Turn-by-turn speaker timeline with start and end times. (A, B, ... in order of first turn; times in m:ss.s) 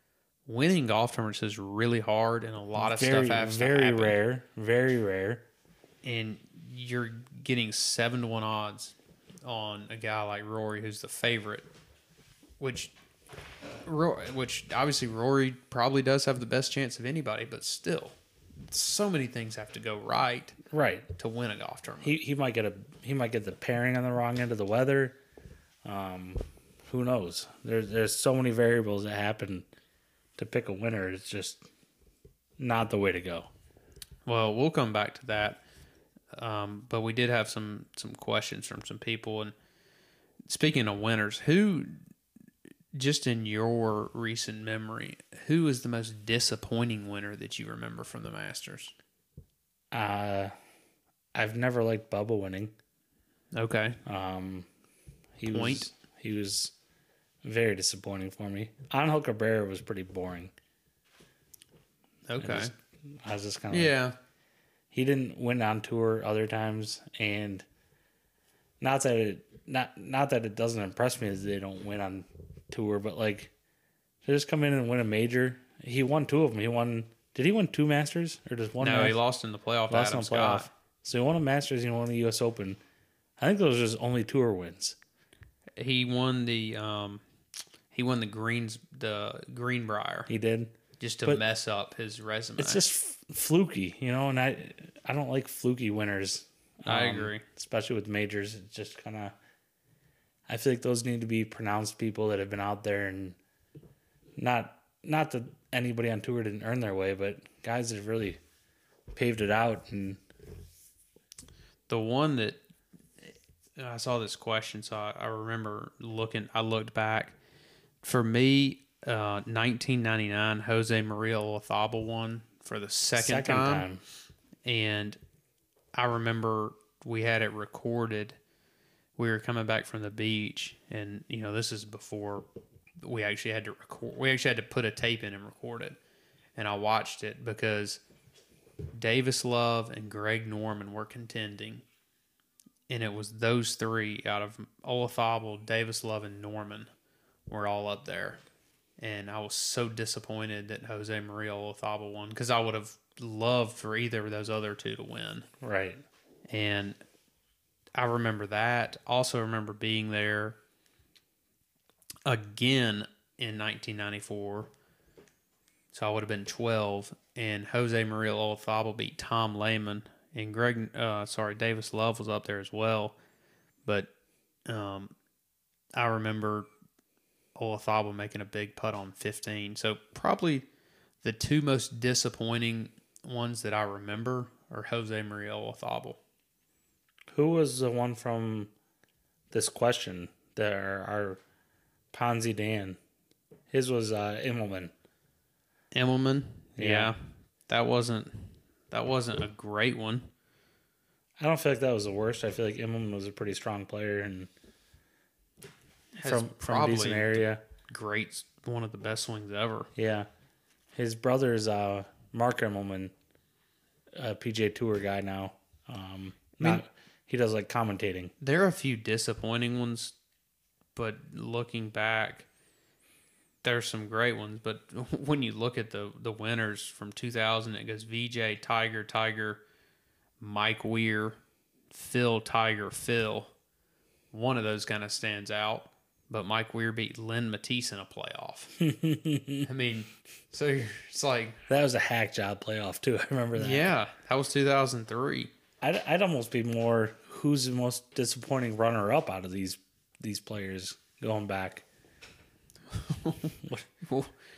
0:00.5-0:04.2 A
0:02.8-0:05.5 B
0:06.0-0:11.7 A
0:12.6-0:12.9 A
0:13.8-0:18.2 A
0:18.7-0:20.6 A
0:20.7-0:21.1 B
0:21.2-0:22.2 A
0:22.0-0:25.2 B
0:25.8-0:29.7 B
0:30.4-0:31.7 B
0:32.6-0:33.5 B
0:34.3-0:35.6 A
0:36.3-0:39.5 A
0:40.5-0:42.0 A
0:42.9-0:48.9 A
0:49.9-0:50.5 B
0:51.3-0:52.7 B
0:53.5-0:54.0 A
0:54.1-0:54.7 B
0:55.4-0:56.7 B
0:55.5-0:55.9 A
0:57.4-1:00.5 B
1:02.3-1:02.7 A
1:02.4-1:04.0 B
1:03.7-1:04.2 A
1:04.9-1:07.7 B
1:08.8-1:13.5 B
1:14.2-1:19.2 B
1:18.8-1:20.7 A
1:19.9-1:22.8 B
1:23.4-1:25.0 B
1:25.8-1:27.2 A
1:27.9-1:30.3 A
1:30.3-1:31.4 B
1:31.0-1:32.8 A
1:32.6-1:39.4 B
1:36.9-1:37.4 A
1:40.5-1:43.4 B
1:44.4-1:48.4 B
1:49.1-1:50.2 B
1:51.9-1:52.6 A
1:53.8-1:57.4 A
1:58.0-2:03.9 A
2:03.2-2:04.0 B
2:04.6-2:05.2 A
2:05.9-2:08.4 A
2:09.2-2:12.5 A
2:13.0-2:16.0 A
2:16.6-2:18.0 A
2:18.9-2:21.8 A
2:22.9-2:26.9 A
2:27.5-2:28.4 A
2:29.0-2:35.5 A
2:35.6-2:36.0 B
2:36.5-2:37.0 A
2:38.0-2:40.6 A
2:42.2-2:44.7 A
2:45.9-2:53.2 A
2:53.8-2:54.1 A
2:54.7-2:55.1 A
2:56.0-2:56.7 A
2:57.6-3:00.7 A
3:01.2-3:06.2 A
3:07.3-3:08.7 B
3:09.5-3:11.4 B
3:12.1-3:13.0 B
3:13.7-3:14.9 B
3:15.9-3:17.2 A
3:16.8-3:17.1 B
3:17.7-3:20.3 A
3:21.4-3:24.5 B
3:26.2-3:29.9 A
3:26.2-3:27.6 B
3:30.0-3:30.3 B
3:31.0-3:33.1 B
3:34.2-3:38.3 B
3:38.4-3:40.2 A
3:41.0-3:42.5 A
3:43.6-3:49.6 A
3:50.4-3:51.4 A
3:51.9-3:53.5 A
3:54.3-3:58.8 A
3:58.8-3:59.7 B
3:59.6-4:01.6 A
4:01.7-4:03.9 B
4:03.6-4:05.5 A
4:05.8-4:11.8 B
4:12.9-4:14.3 A